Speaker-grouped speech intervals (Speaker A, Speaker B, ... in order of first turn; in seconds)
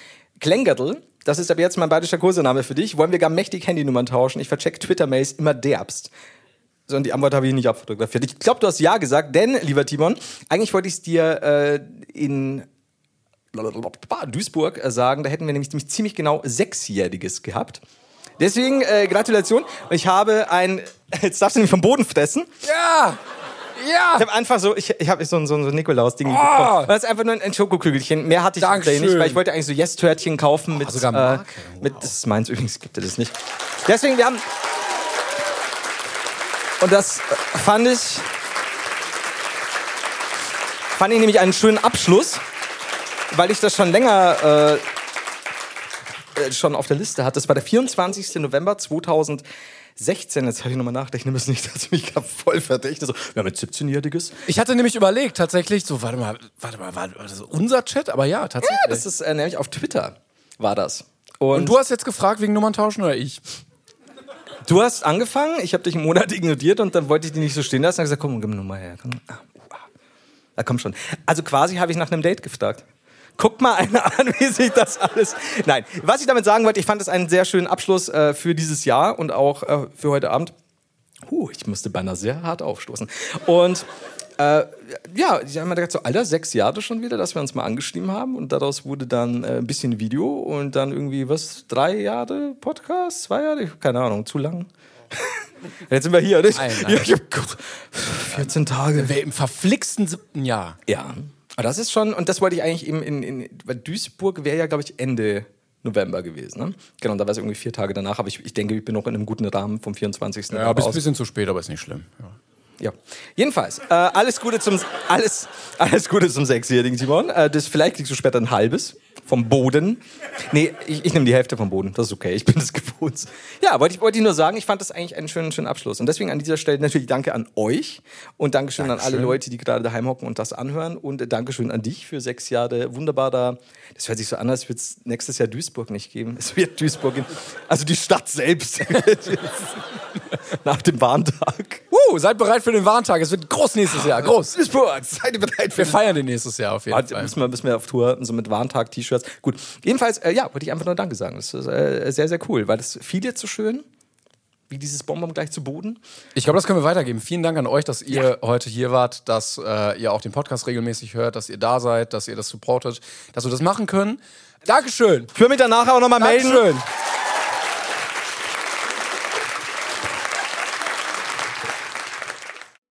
Speaker A: 0.4-6.1, 6.9-12.7, 13.5-17.8, 18.4-22.6, 24.2-34.5, 36.8-38.3, 40.9-42.4, 43.3-44.9, 46.4-49.4, 50.0-54.4, 58.6-61.8, 64.6-69.8, 70.6-72.8, 73.4-80.5, 81.3-83.8, 84.4-99.1, 100.9-111.0, 112.8-139.8, 140.5-141.8, 144.0-146.0, 146.9-153.8, 154.7-156.0, 165.3-166.8
Speaker B: 22.6-23.2, 23.8-24.3, 26.2-26.9, 28.6-29.4, 30.8-32.1, 54.5-59.0, 61.5-63.4, 96.5-97.1, 98.3-100.8, 110.5-112.4, 128.8-129.4, 141.9-144.6, 145.8-147.3, 156.3-165.3, 166.2-166.7